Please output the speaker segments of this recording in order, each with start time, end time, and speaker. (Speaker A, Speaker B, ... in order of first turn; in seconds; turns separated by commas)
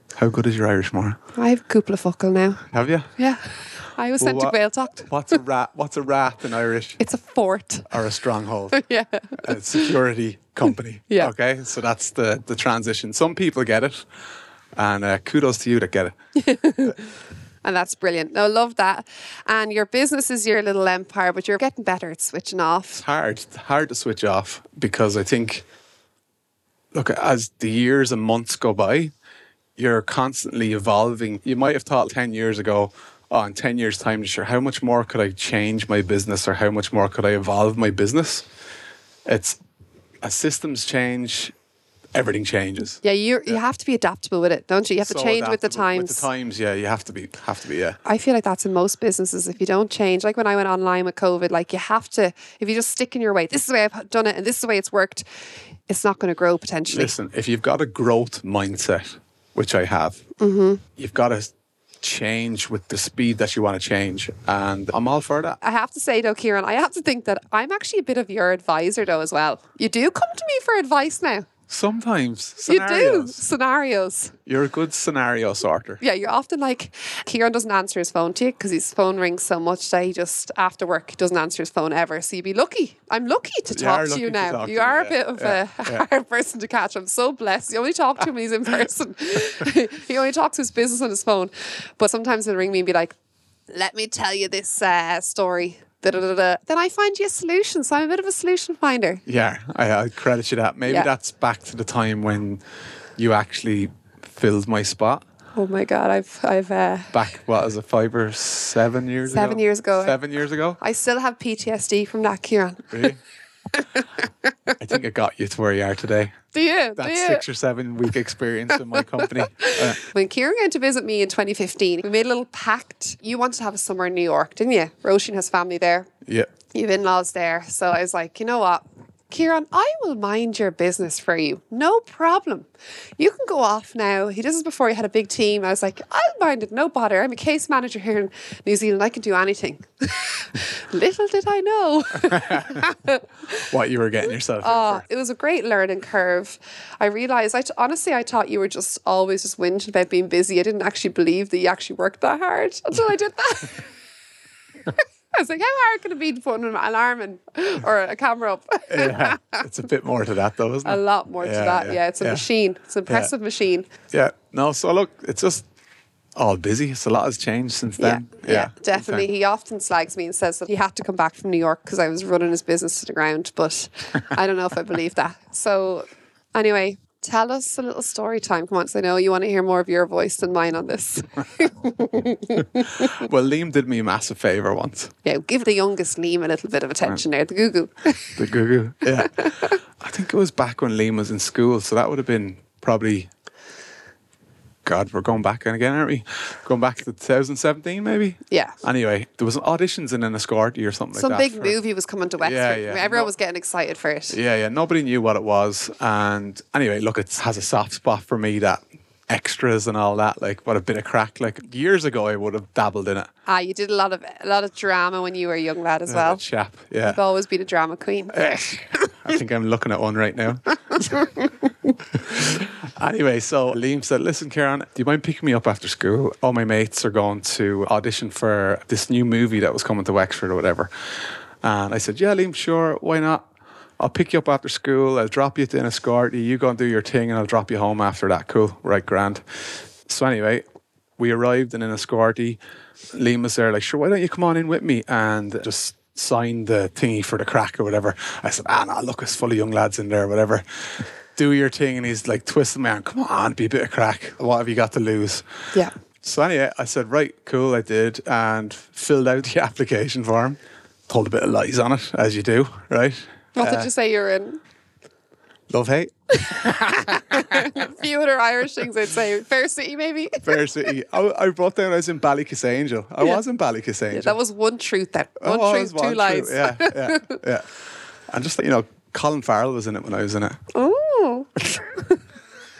Speaker A: 0.1-1.2, Speaker B: 1.4-5.4, Speaker A: 2.7-3.1, Speaker A: 4.2-7.0, Speaker B: 7.0-7.9, Speaker A: 7.9-8.8, Speaker B: 8.7-9.9, Speaker A: 9.4-14.1, Speaker A: 14.8-16.1, Speaker B: 16.4-17.1, Speaker B: 17.6-23.0, Speaker A: 22.9-25.6, Speaker A: 26.9-29.1, Speaker A: 29.8-38.5, Speaker A: 39.2-39.6, Speaker A: 40.2-41.5, Speaker A: 42.1-43.0, Speaker B: 43.0-46.2, Speaker A: 45.0-48.0, Speaker B: 48.0-55.2, Speaker B: 55.9-57.1, Speaker A: 56.9-60.2, Speaker B: 60.4-60.8, Speaker A: 61.0-65.6, Speaker B: 65.6-71.5, Speaker A: 71.7-73.4, Speaker B: 72.7-74.4, Speaker A: 74.5-76.0, Speaker B: 76.0-93.1, Speaker A: 83.7-86.0, Speaker B: 93.7-99.2, Speaker A: 99.2-102.6, Speaker A: 103.2-105.2, Speaker B: 105.5-107.2, Speaker A: 107.1-110.8, Speaker B: 109.2-110.2, Speaker B: 110.8-113.1, Speaker A: 112.9-113.2, Speaker B: 113.7-114.8, Speaker A: 114.8-116.4, Speaker B: 116.5-117.4, Speaker A: 117.0-120.0, Speaker B: 119.2-126.1, Speaker A: 126.2-126.5, Speaker B: 126.7-143.7, Speaker A: 142.3-142.9, Speaker A: 143.6-145.0, Speaker B: 144.6-153.8, Speaker B: 154.9-159.6, Speaker A: 158.9-162.4, Speaker B: 160.8-163.9, Speaker A: 163.1-163.3, Speaker A: 164.1-165.7, Speaker A: 166.4-169.3, Speaker B: 168.0-183.1, Speaker A: 182.8-185.1, Speaker B: 185.2-188.4, Speaker A: 188.4-193.3, Speaker B: 189.3-189.8, Speaker A: 194.8-201.8, Speaker B: 198.5-198.8, Speaker B: 201.1-204.4, Speaker A: 202.4-203.3, Speaker A: 204.3-213.3, Speaker B: 213.4-216.4, Speaker A: 216.1-217.2, Speaker B: 217.0-218.4, Speaker A: 218.3-221.3, Speaker B: 221.0-221.5, Speaker A: 222.1-230.9, Speaker A: 231.6-239.4, Speaker A: 240.1-240.6, Speaker A: 241.2-242.6, Speaker A: 243.1-255.4, Speaker A: 256.2-263.9, Speaker B: 263.6-264.6, Speaker A: 265.7-267.8, Speaker B: 266.4-270.6, Speaker A: 270.4-274.4, Speaker B: 274.1-277.4, Speaker A: 275.4-277.7, Speaker A: 278.3-280.6, Speaker B: 280.7-282.2